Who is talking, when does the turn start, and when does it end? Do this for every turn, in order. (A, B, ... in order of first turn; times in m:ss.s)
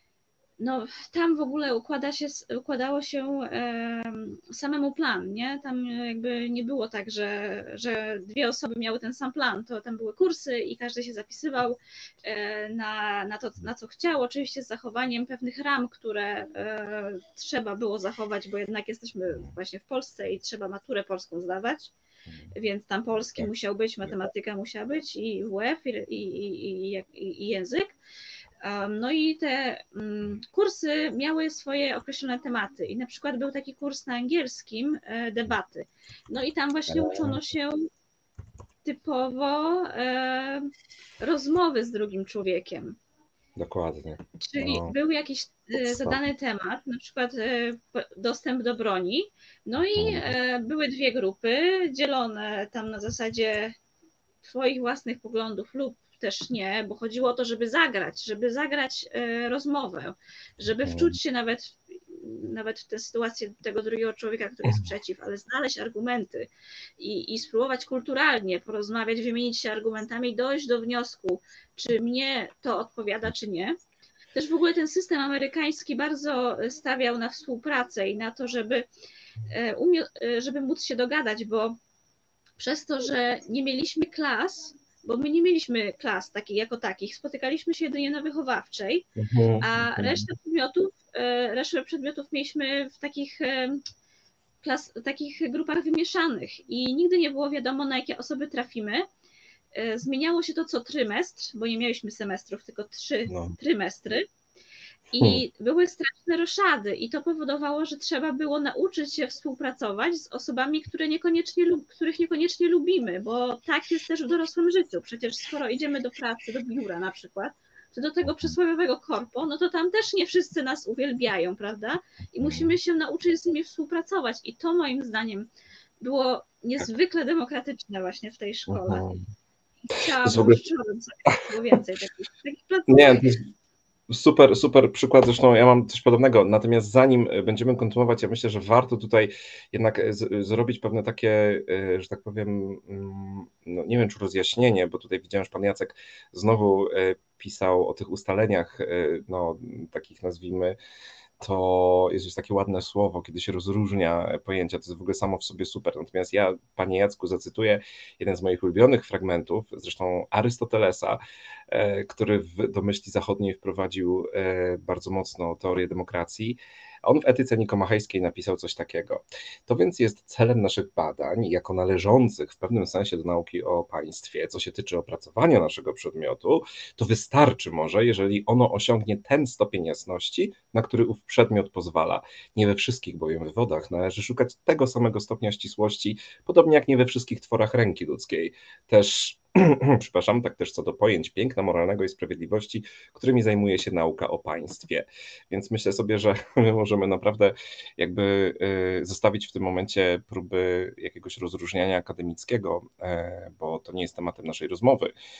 0:00.6-0:21.9 A
0:22.3-0:22.5 B
0:22.5-0:27.9 A
0:28.6-0:37.9 A
0:36.9-0:37.4 B
0:38.8-0:43.0 A
0:43.6-0:44.9 B
0:44.4-0:53.8 A
0:45.8-0:46.2 B
0:49.9-0:50.3 B
0:54.4-1:06.5 A
1:00.8-1:01.2 B
1:04.6-1:04.9 B
1:07.0-1:13.8 A
1:14.3-1:18.9 A
1:19.5-1:21.8 A
1:22.6-1:29.0 A
1:29.2-1:30.2 B
1:29.6-1:33.8 A
1:34.6-1:39.1 A
1:39.8-1:44.2 A
1:43.3-1:43.6 B
1:45.1-1:45.4 B
1:45.2-2:05.5 A
1:58.2-1:58.5 B
2:02.4-2:02.7 B
2:06.0-2:09.0 A
2:08.7-2:09.2 B
2:09.9-2:13.3 A
2:10.2-2:10.6 B
2:12.9-2:13.4 B
2:14.1-2:30.8 B
2:31.4-3:25.1 B